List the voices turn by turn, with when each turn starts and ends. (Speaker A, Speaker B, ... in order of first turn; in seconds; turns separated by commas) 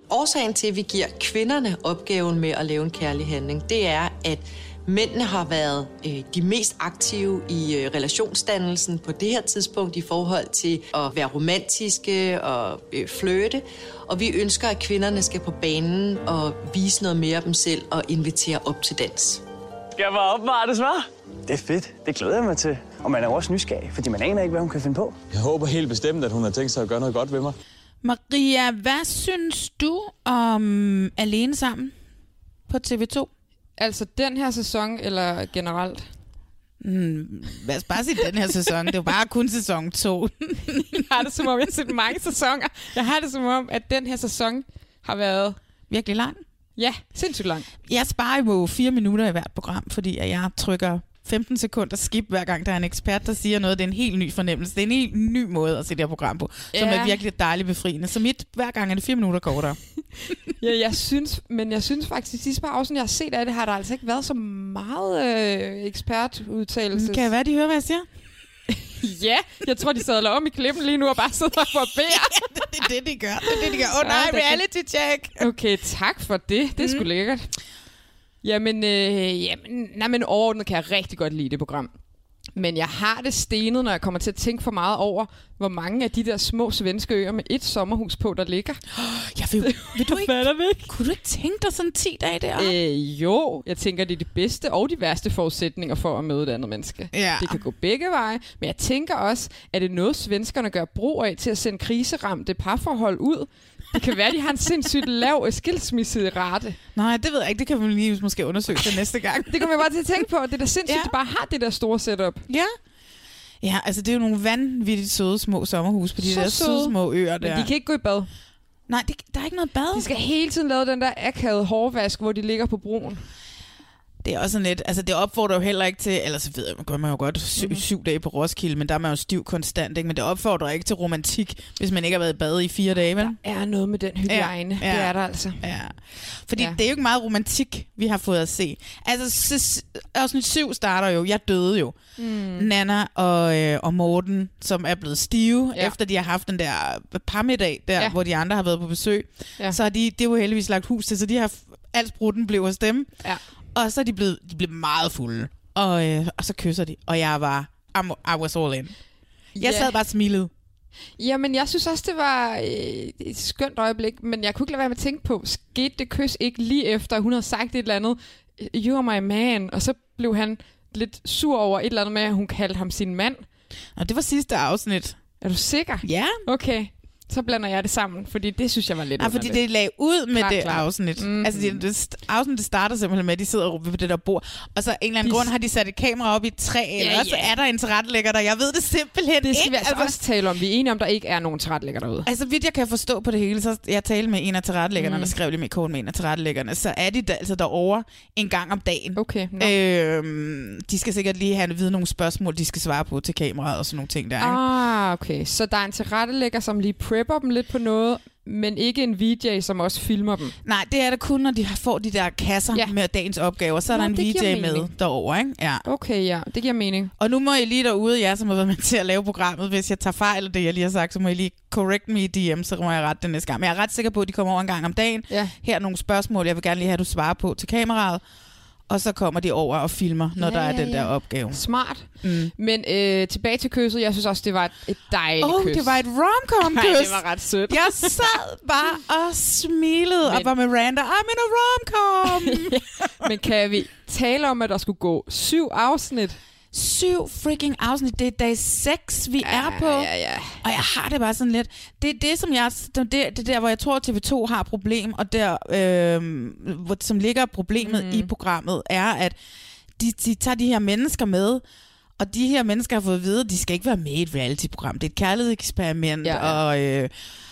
Speaker A: 0.1-19.4, Speaker B: 20.0-25.1, Speaker C: 25.3-27.5, Speaker D: 28.0-31.9, Speaker D: 32.7-33.3, Speaker E: 33.8-36.0, Speaker D: 36.8-41.0, Speaker E: 40.9-45.6, Speaker D: 45.9-46.4, Speaker E: 46.8-47.7, Speaker D: 47.9-59.8, Speaker E: 56.7-57.2, Speaker E: 60.6-67.3, Speaker D: 66.9-68.0, Speaker E: 68.7-72.4, Speaker D: 72.1-75.4, Speaker E: 73.5-74.6, Speaker E: 75.4-77.5, Speaker D: 76.8-77.0, Speaker E: 78.4-81.9, Speaker E: 82.5-88.8, Speaker D: 88.9-92.7, Speaker E: 89.6-90.9, Speaker E: 92.6-106.8, Speaker D: 97.1-97.6, Speaker D: 106.9-109.7, Speaker E: 109.5-112.4, Speaker D: 110.9-111.1, Speaker D: 112.5-112.7, Speaker D: 113.6-117.7, Speaker E: 116.2-118.3, Speaker D: 118.9-120.1, Speaker E: 119.9-123.2, Speaker D: 124.2-133.3, Speaker E: 127.6-127.8, Speaker E: 133.2-135.6, Speaker D: 134.3-141.9, Speaker E: 142.2-142.7, Speaker D: 142.6-153.1, Speaker D: 153.7-158.9, Speaker E: 159.6-159.9, Speaker D: 159.6-160.5, Speaker E: 161.2-173.4, Speaker D: 173.9-175.2, Speaker E: 175.4-179.6, Speaker D: 176.0-176.4, Speaker D: 179.2-190.2, Speaker E: 180.3-181.8, Speaker E: 185.2-185.5, Speaker E: 187.0-187.5, Speaker E: 189.4-192.3, Speaker D: 192.2-204.6, Speaker E: 195.0-195.3, Speaker E: 199.2-199.8, Speaker E: 204.4-210.6, Speaker D: 210.6-215.8, Speaker E: 213.9-214.9, Speaker E: 215.8-217.1, Speaker D: 217.2-228.2, Speaker E: 225.3-225.5, Speaker D: 228.9-231.6, Speaker E: 230.4-236.0, Speaker D: 232.2-232.5, Speaker D: 235.4-242.7, Speaker E: 236.6-238.3, Speaker E: 240.2-240.5, Speaker E: 242.2-246.4, Speaker D: 246.7-250.1, Speaker E: 249.4-250.6, Speaker D: 250.6-259.4, Speaker E: 257.8-258.3, Speaker D: 260.0-261.6, Speaker D: 262.2-267.1, Speaker E: 266.2-266.6